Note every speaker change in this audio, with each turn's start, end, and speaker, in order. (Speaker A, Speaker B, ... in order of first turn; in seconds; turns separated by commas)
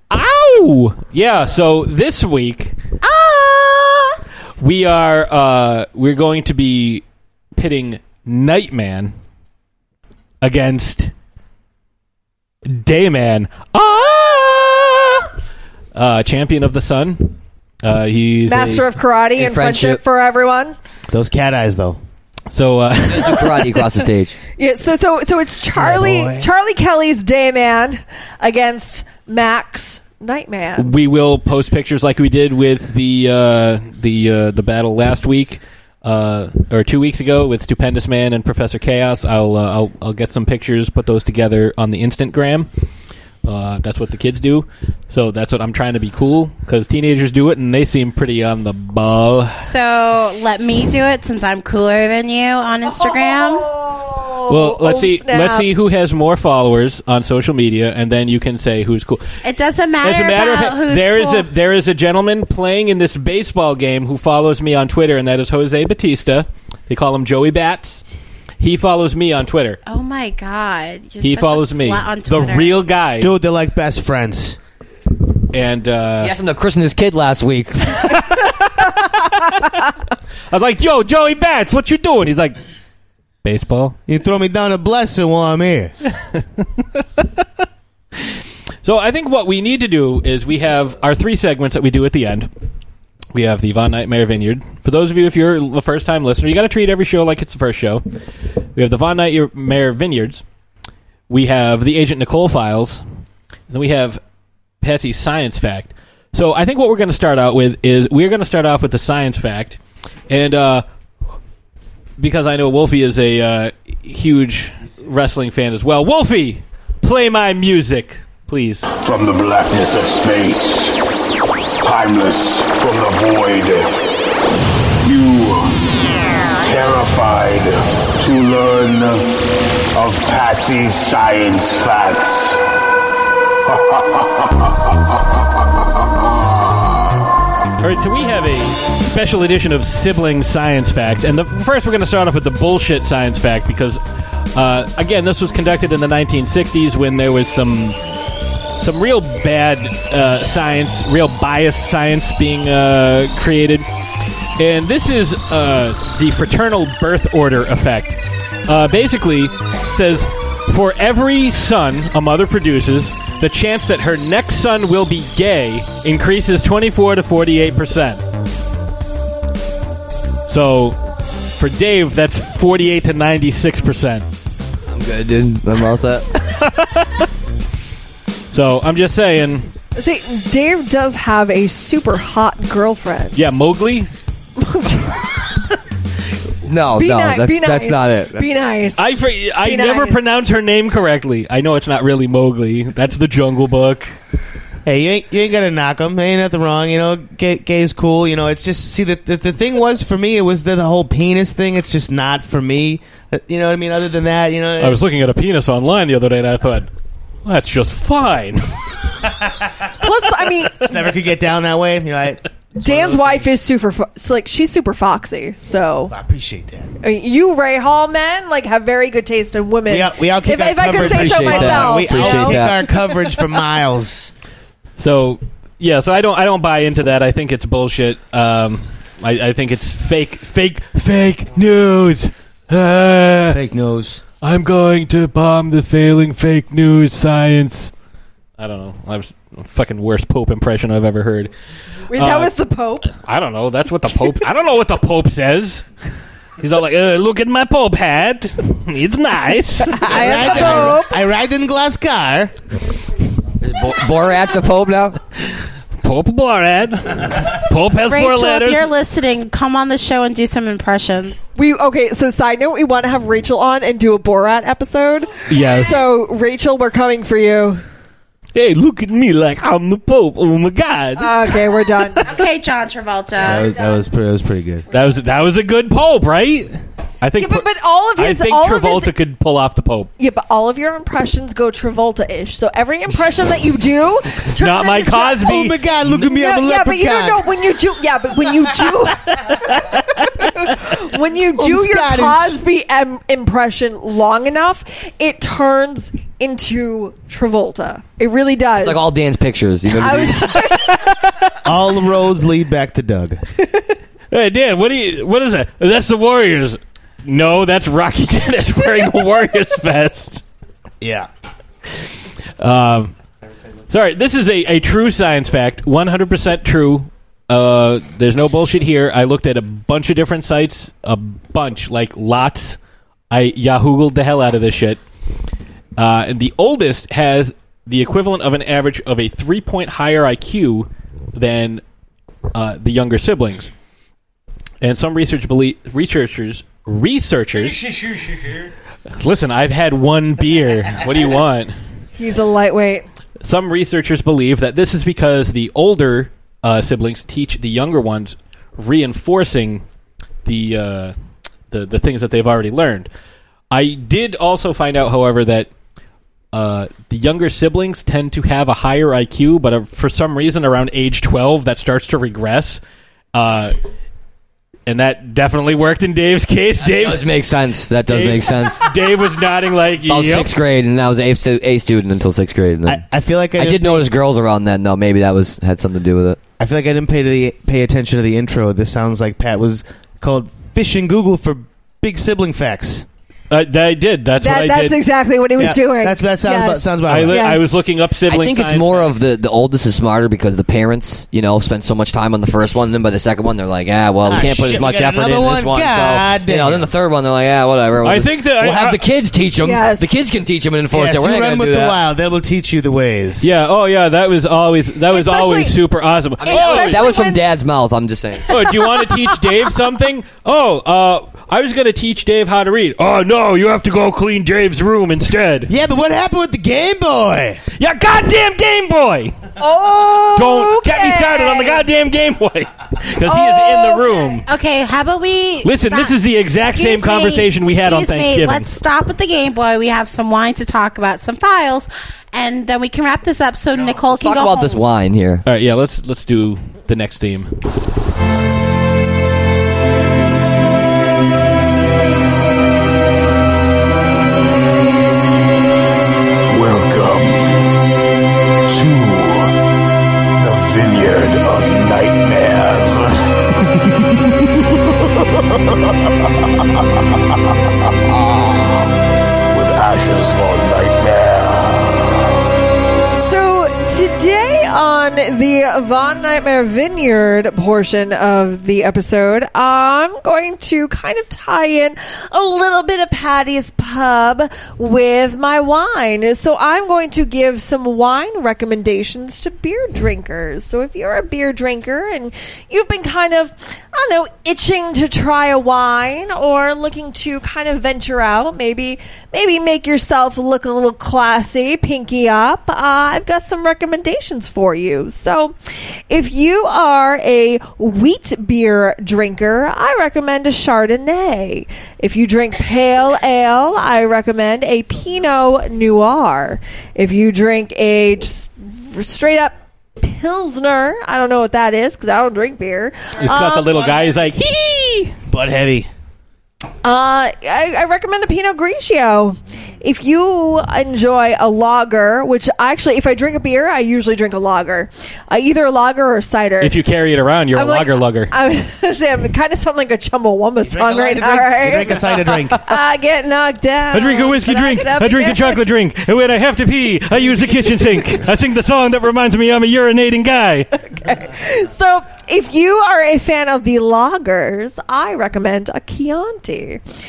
Speaker A: 0.1-2.8, Speaker B: 3.0-4.1, Speaker A: 4.6-7.0, Speaker A: 7.5-9.1, Speaker A: 10.4-11.1, Speaker A: 12.7-15.3, Speaker A: 15.9-18.9, Speaker C: 18.4-20.8, Speaker D: 19.4-20.0, Speaker E: 21.1-22.0, Speaker A: 22.5-23.9, Speaker D: 23.1-24.3, Speaker C: 24.6-30.9, Speaker E: 25.7-26.5, Speaker A: 30.8-42.7, Speaker A: 43.4-49.6, Speaker B: 49.6-53.7, Speaker C: 53.0-55.7, Speaker A: 54.5-59.2, Speaker B: 59.4-61.5, Speaker A: 60.0-68.0, Speaker A: 68.6-69.8, Speaker B: 69.9-72.8, Speaker A: 71.2-73.3, Speaker E: 73.2-74.6, Speaker A: 75.5-76.3, Speaker D: 76.2-78.1, Speaker A: 78.0-79.8, Speaker A: 80.5-82.6, Speaker A: 83.4-84.0, Speaker E: 84.1-85.9, Speaker A: 86.9-87.4, Speaker A: 88.8-92.5, Speaker A: 93.3-98.0, Speaker A: 98.8-100.4, Speaker A: 101.3-103.0, Speaker A: 103.7-104.2, Speaker A: 104.8-110.8, Speaker A: 112.2-118.8, Speaker F: 119.0-121.0, Speaker F: 121.8-123.9, Speaker F: 125.0-125.8, Speaker F: 126.6-129.3, Speaker F: 129.9-132.6, Speaker F: 133.7-134.8, Speaker A: 137.8-144.0, Speaker A: 144.5-148.0, Speaker A: 148.8-153.9, Speaker A: 154.6-168.2, Speaker A: 170.5-171.0, Speaker A: 171.6-174.3, Speaker D: 174.9-176.3, Speaker A: 176.5-177.3, Speaker A: 178.5-179.7, Speaker C: 179.9-183.4, Speaker A: 183.3-184.1, Speaker C: 184.6-185.5, Speaker D: 186.6-188.5, Speaker C: 186.9-189.0, Speaker A: 189.0-194.1, Speaker C: 189.6-190.2, Speaker E: 194.8-205.0, Speaker A: 204.8-206.9, Speaker A: 207.4-208.8, Speaker C: 210.0-211.0, Speaker E: 210.7-212.4, Speaker C: 212.8-216.1, Speaker E: 213.1-213.4, Speaker E: 216.1-216.9, Speaker C: 217.0-222.7, Speaker E: 219.9-224.3, Speaker D: 220.9-222.9, Speaker A: 225.0-233.6, Speaker E: 233.5-234.2, Speaker A: 234.4-237.9, Speaker A: 238.6-241.5, Speaker C: 242.1-243.1, Speaker A: 242.1-242.5, Speaker A: 243.1-245.8, Speaker A: 246.6-250.9, Speaker C: 249.9-251.2, Speaker E: 250.1-252.5, Speaker D: 253.6-255.2, Speaker A: 256.0-258.9, Speaker B: 258.0-261.4, Speaker C: 261.6-267.8, Speaker A: 265.5-266.0, Speaker A: 268.5-271.4, Speaker C: 271.2-272.4, Speaker B: 272.2-273.7, Speaker E: 273.4-274.9, Speaker A: 274.9-280.1, Speaker C: 277.4-279.1, Speaker C: 280.2-299.1, Speaker A: 284.6-286.1, Speaker E: 285.3-287.6, Speaker E: 291.5-292.6, Speaker D: 298.8-300.5, Speaker C: 299.9-301.1, Speaker A: 300.7-301.6, Speaker E: 301.6-303.4, Speaker A: 304.3-310.4, Speaker E: 311.0-311.3, Speaker A: 312.6-313.1, Speaker A: 313.9-322.8, Speaker A: 323.3-325.0, Speaker A: 326.0-331.8, Speaker A: 332.5-333.7, Speaker A: 334.8-337.9, Speaker A: 339.2-341.7, Speaker C: 342.2-343.1, Speaker A: 343.4-349.8, Speaker A: 350.4-351.1, Speaker A: 351.7-353.1, Speaker A: 353.7-355.7, Speaker A: 356.5-362.8, Speaker A: 363.3-363.8, Speaker A: 364.9-367.3, Speaker D: 366.8-368.9, Speaker A: 368.1-370.6, Speaker D: 370.1-376.4, Speaker E: 372.9-374.1, Speaker E: 376.6-383.1, Speaker A: 383.5-385.0, Speaker C: 384.4-387.7, Speaker E: 385.6-387.4, Speaker A: 387.1-389.2, Speaker D: 388.3-402.0, Speaker E: 394.2-396.9, Speaker A: 398.0-399.0, Speaker C: 399.6-400.1, Speaker E: 400.9-403.5, Speaker A: 403.4-407.1, Speaker C: 405.1-405.8, Speaker C: 406.4-407.4, Speaker D: 406.4-408.5, Speaker A: 408.5-415.7, Speaker C: 408.9-409.3, Speaker E: 415.7-417.6, Speaker A: 417.8-419.5, Speaker C: 419.6-421.8, Speaker A: 420.3-424.4, Speaker C: 423.2-424.3, Speaker B: 424.4-434.8, Speaker A: 425.6-428.7, Speaker D: 434.0-435.4, Speaker A: 435.4-437.5, Speaker F: 446.5-447.5, Speaker F: 448.6-449.5, Speaker F: 450.4-453.3, Speaker F: 458.1-458.6, Speaker F: 459.5-462.1, Speaker C: 463.2-495.6, Speaker C: 496.1-514.4, Speaker A: 513.2-515.1, Speaker E: 515.3-515.9, Speaker C: 516.8-526.8, Speaker A: 526.6-528.3, Speaker C: 527.5-535.6, Speaker E: 530.6-532.7, Speaker A: 533.9-540.7, Speaker C: 537.3-538.1, Speaker C: 540.8-546.8